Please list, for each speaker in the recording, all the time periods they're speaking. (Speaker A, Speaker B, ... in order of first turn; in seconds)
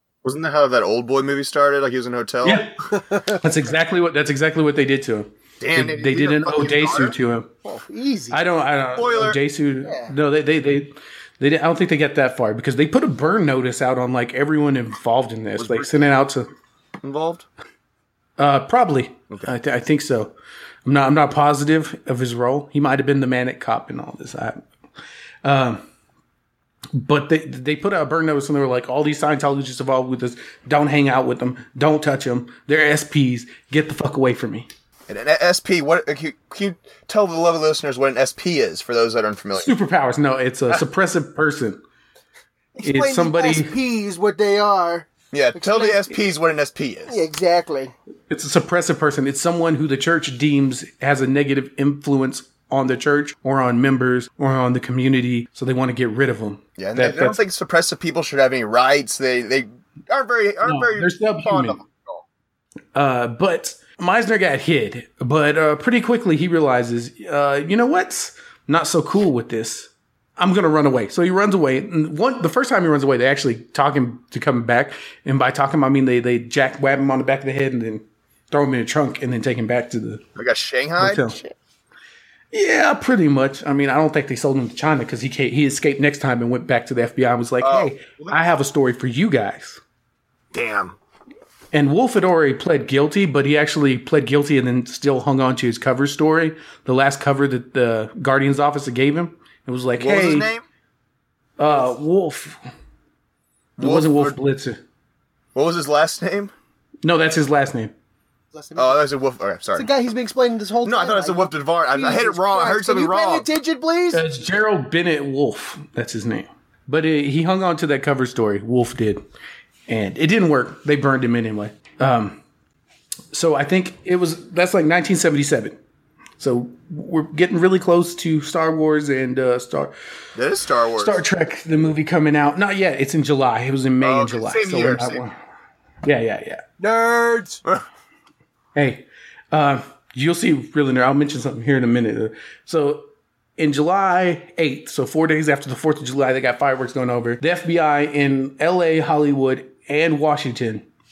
Speaker A: 0.2-2.7, 5.6-7.2, 8.9-9.4, 15.6-15.9, 17.0-17.4, 35.1-39.7, 45.3-47.2, 56.8-62.2, 80.4-81.5, 87.6-88.4, 90.5-91.0, 100.0-100.6, 103.8-104.4, 105.5-106.5, 108.8-109.9, 110.8-113.5, 130.3-131.2, 134.0-135.2
Speaker B: 2.4-2.7, 3.4-7.5, 8.3-16.5, 18.4-20.3, 20.9-24.6, 25.4-25.8, 26.9-34.7, 39.6-41.8, 42.8-43.7, 48.3-57.4, 60.6-61.8, 63.0-80.2, 81.0-81.4, 82.5-89.8, 91.7-100.5, 101.6-102.6, 103.8-104.8, 107.0-107.9, 114.1-119.2, 119.9-122.4, 123.3-125.8, 126.4-129.9, 131.0-135.4, 136.0-136.6, 138.7-143.1, 143.6-150.8
Speaker C: 2.9-3.4, 7.6-8.4, 9.8-10.1, 42.8-46.0, 47.1-47.9, 108.5-109.0, 109.7-114.2, 136.8-137.6